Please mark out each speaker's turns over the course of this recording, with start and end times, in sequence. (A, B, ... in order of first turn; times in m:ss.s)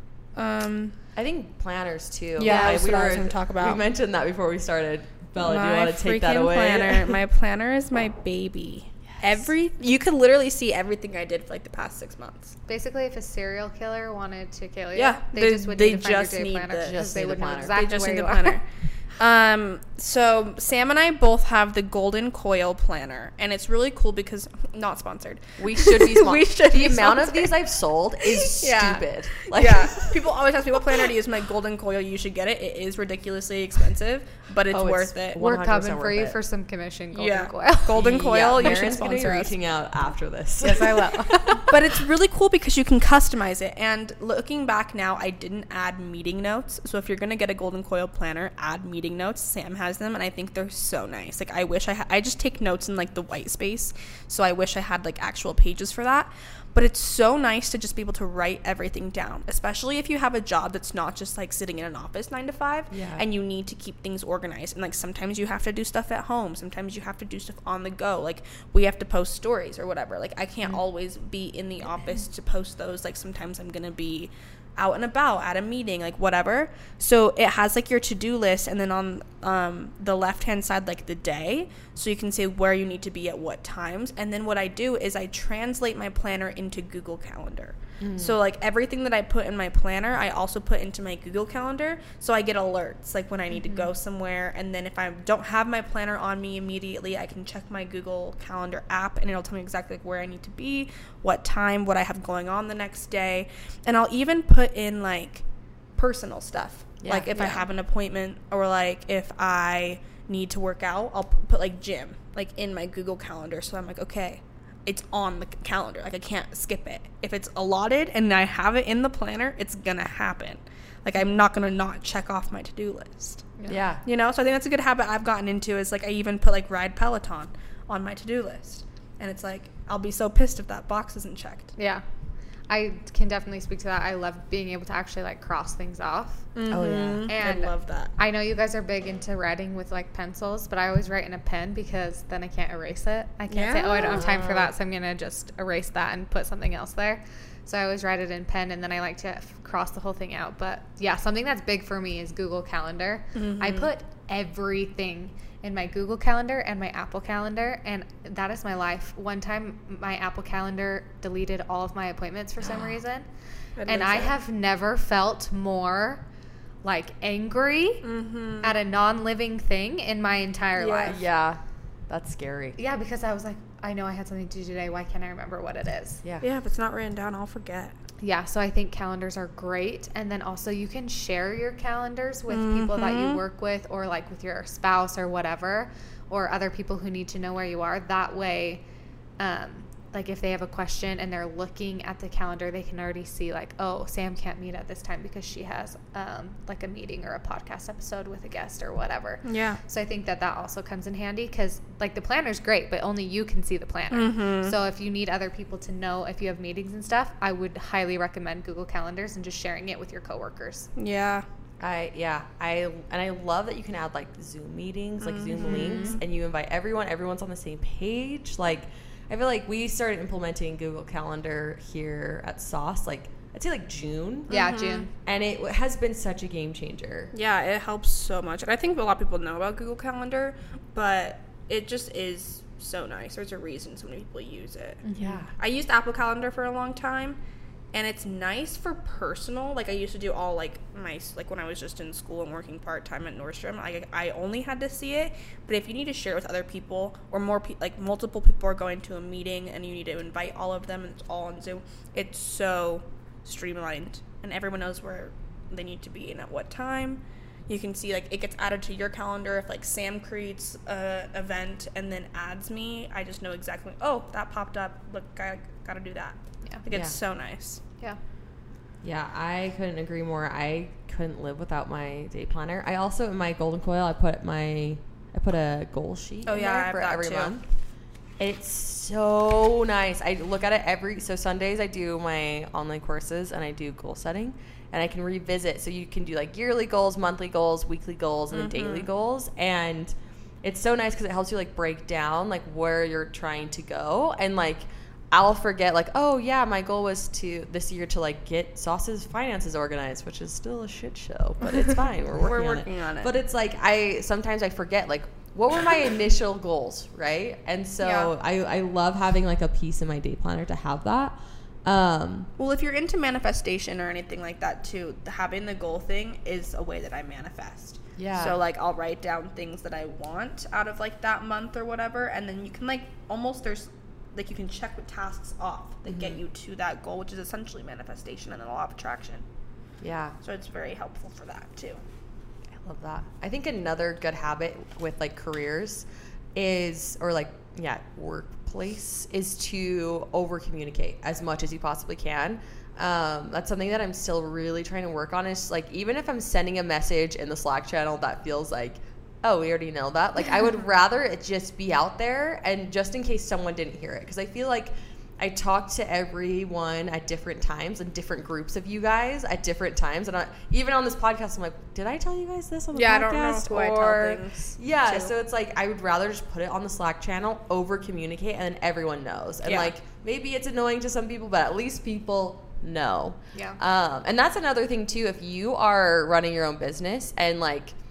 0:00.3-0:01.0 A
0:01.1-0:07.2 B
0:02.4-0:03.8 A
0:02.4-0:02.8 C
0:05.4-0:12.5 A
0:09.1-0:09.5 B
0:12.7-0:18.6 C
0:14.9-0:17.0 A
0:16.8-0:17.8 B
0:17.6-0:27.6 A
0:25.6-0:30.3 B
0:28.2-0:35.4 A
0:34.7-0:36.4 B
0:35.4-0:38.0 C
0:37.1-0:39.5 A
0:37.9-0:41.8 B
0:40.6-0:41.6 C
0:41.7-1:45.4 A
1:02.9-1:03.2 B
1:28.0-1:28.4 B
1:33.5-1:33.9 C
1:46.0-2:03.5 A
1:47.0-1:47.7 B
2:03.7-2:04.0 B
2:04.0-2:11.7 A
2:11.8-2:12.0 C
2:12.7-2:16.5 C
2:16.5-2:18.1 A
2:16.7-2:17.3 B
2:17.2-2:43.3 C
2:23.5-2:24.2 A
2:24.1-2:24.7 B
2:33.3-2:33.9 A
2:42.6-2:43.0 B
2:43.8-2:44.3 A
2:43.8-2:46.2 C
2:46.8-2:48.0 C
2:48.0-2:48.8 A
2:48.6-2:51.2 C
2:50.8-2:51.2 A
2:51.0-2:52.8 B
2:52.8-2:56.2 C
2:56.4-2:58.0 A
2:58.2-3:08.8 C
3:02.5-3:03.4 A
3:09.4-3:30.9 C
3:19.4-3:19.8 A
3:24.1-3:24.7 A
3:31.0-3:31.4 A
3:31.8-3:44.6 B
3:35.4-3:36.2 C
3:35.6-3:36.2 A
3:44.5-3:45.0 A
3:44.5-3:45.1 C
3:45.2-3:47.3 B
3:47.3-3:55.0 A
3:55.0-3:55.4 C
3:55.2-3:55.5 B
3:55.6-3:57.4 A
3:57.9-4:27.8 A
4:29.0-4:37.6 B
4:36.4-4:37.5 A
4:38.4-5:12.5 B
4:48.5-4:49.1 A
5:02.3-5:03.3 A
5:08.0-5:08.3 A
5:12.6-5:29.4 A
5:18.2-5:18.6 B
5:26.0-5:26.4 B
5:30.0-5:30.4 B
5:30.4-5:32.0 A
5:32.7-6:17.9 B
6:02.9-6:05.3 A
6:09.6-6:09.9 A